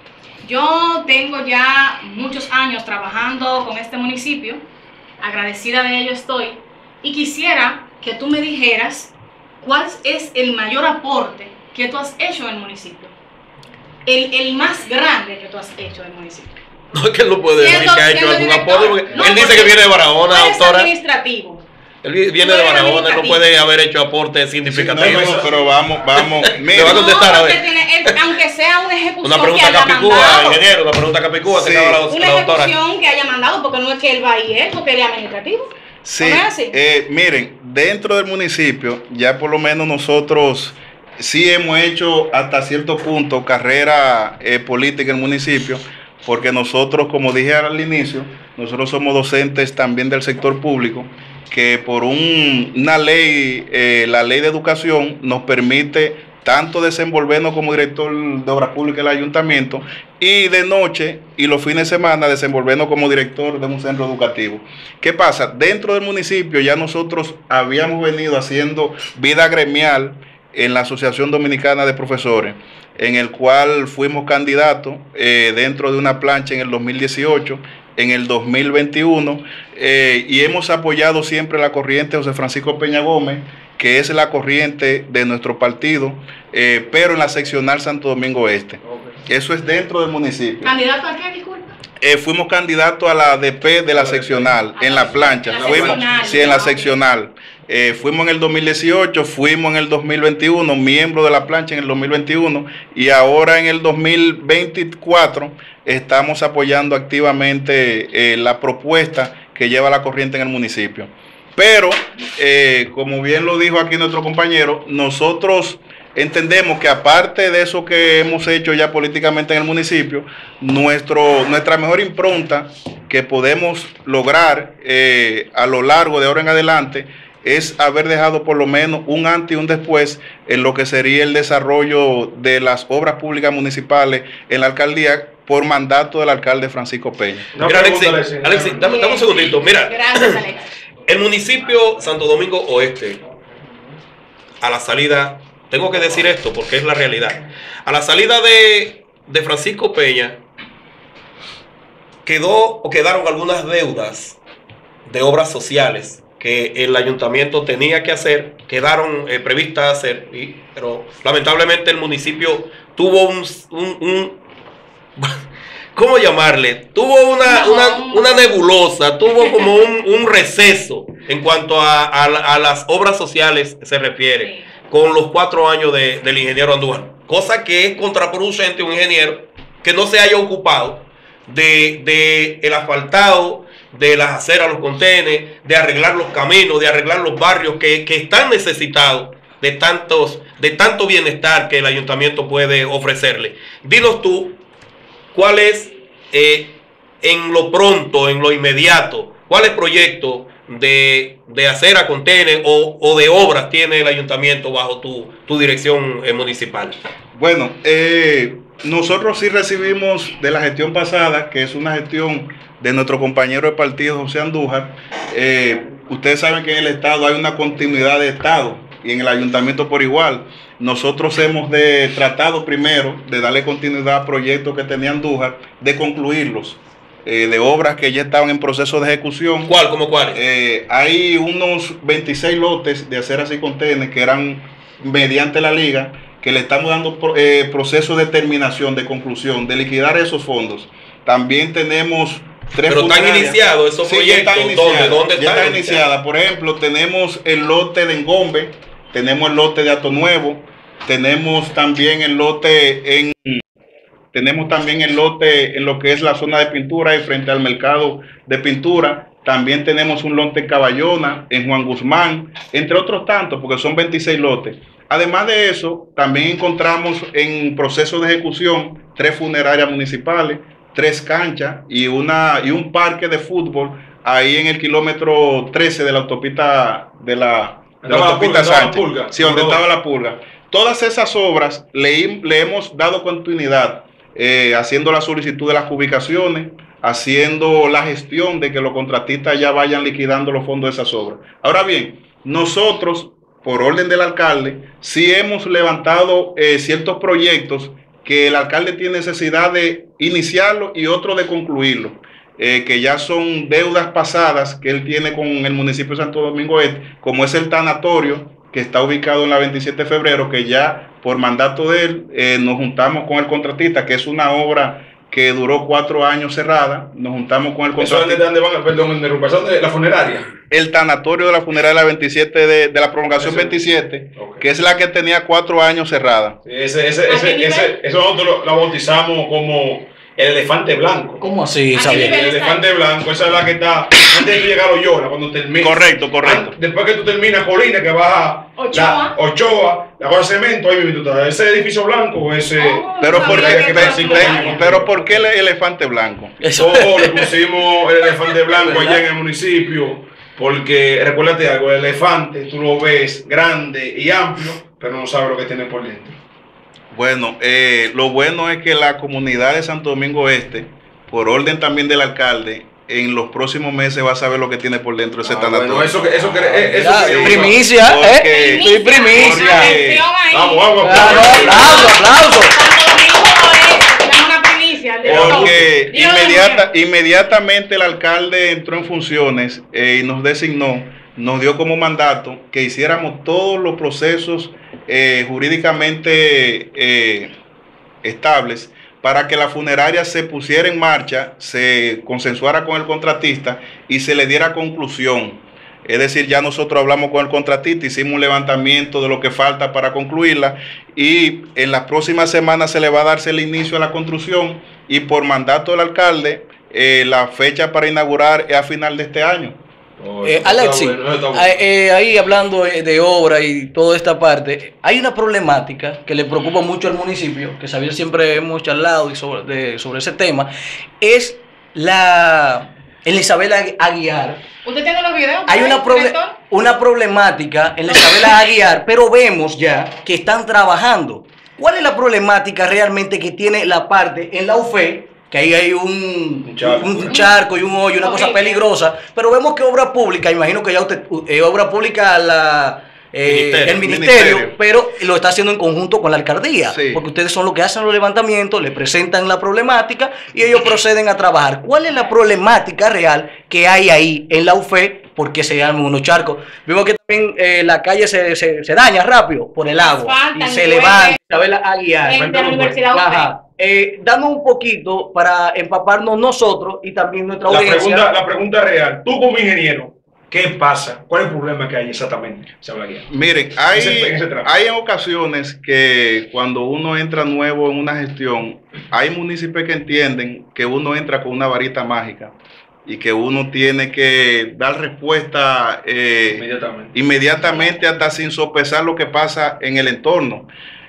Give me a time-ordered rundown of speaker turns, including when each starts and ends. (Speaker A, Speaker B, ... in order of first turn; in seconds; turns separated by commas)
Speaker A: 0.4-4.6, Speaker A: 5.2-13.1, Speaker A: 14.1-16.6, Speaker B: 16.9-20.9, Speaker A: 17.6-21.6, Speaker B: 22.0-25.5, Speaker A: 22.4-23.4, Speaker C: 24.7-27.1, Speaker D: 24.8-25.6, Speaker B: 26.1-28.3, Speaker A: 26.7-30.6, Speaker B: 29.2-32.8, Speaker C: 31.5-32.0, Speaker A: 32.1-36.7, Speaker C: 36.0-90.7, Speaker D: 88.8-89.2, Speaker A: 90.6-91.7, Speaker C: 92.0-137.5, Speaker D: 93.9-94.7, Speaker A: 94.8-97.0, Speaker D: 95.3-96.5, Speaker D: 137.5-138.8, Speaker B: 137.6-140.4, Speaker A: 138.8-140.7, Speaker B: 141.0-143.2, Speaker B: 144.6-150.4, Speaker B: 152.2-154.4, Speaker B: 155.1-164.4, Speaker B: 165.9-194.6, Speaker A: 167.4-168.6, Speaker A: 174.4-174.7, Speaker B: 195.3-207.0, Speaker C: 207.3-229.8, Speaker B: 229.7-230.4, Speaker C: 230.3-253.6, Speaker B: 242.8-246.0, Speaker C: 254.3-318.4, Speaker D: 278.0-279.8, Speaker D: 318.0-320.5, Speaker C: 320.7-326.6, Speaker D: 323.4-323.8, Speaker D: 324.4-324.7, Speaker D: 326.6-331.4, Speaker A: 327.3-328.0, Speaker E: 331.4-332.4, Speaker A: 331.9-332.9, Speaker D: 332.0-345.4, Speaker C: 335.8-336.7, Speaker A: 338.8-339.4, Speaker A: 342.8-344.9, Speaker C: 343.2-346.6, Speaker E: 346.6-347.5, Speaker D: 346.7-356.4, Speaker E: 348.7-349.2, Speaker C: 357.1-368.9, Speaker D: 365.4-367.9, Speaker E: 366.8-369.9, Speaker A: 368.3-376.9, Speaker D: 369.3-372.1, Speaker C: 369.6-370.2, Speaker E: 371.0-372.8, Speaker D: 375.2-376.1, Speaker C: 375.2-387.5, Speaker C: 388.2-409.8, Speaker D: 410.2-411.8, Speaker E: 410.4-424.6, Speaker A: 424.8-426.6, Speaker E: 425.7-468.3, Speaker A: 428.1-428.5, Speaker D: 436.6-437.3, Speaker A: 437.3-437.5, Speaker A: 438.2-438.8, Speaker B: 443.4-444.0, Speaker C: 444.0-444.7, Speaker C: 446.9-447.2, Speaker A: 460.0-461.4, Speaker A: 462.2-463.5, Speaker D: 467.7-473.3, Speaker C: 473.3-482.5, Speaker D: 473.9-474.7, Speaker C: 483.1-490.7, Speaker D: 486.5-487.1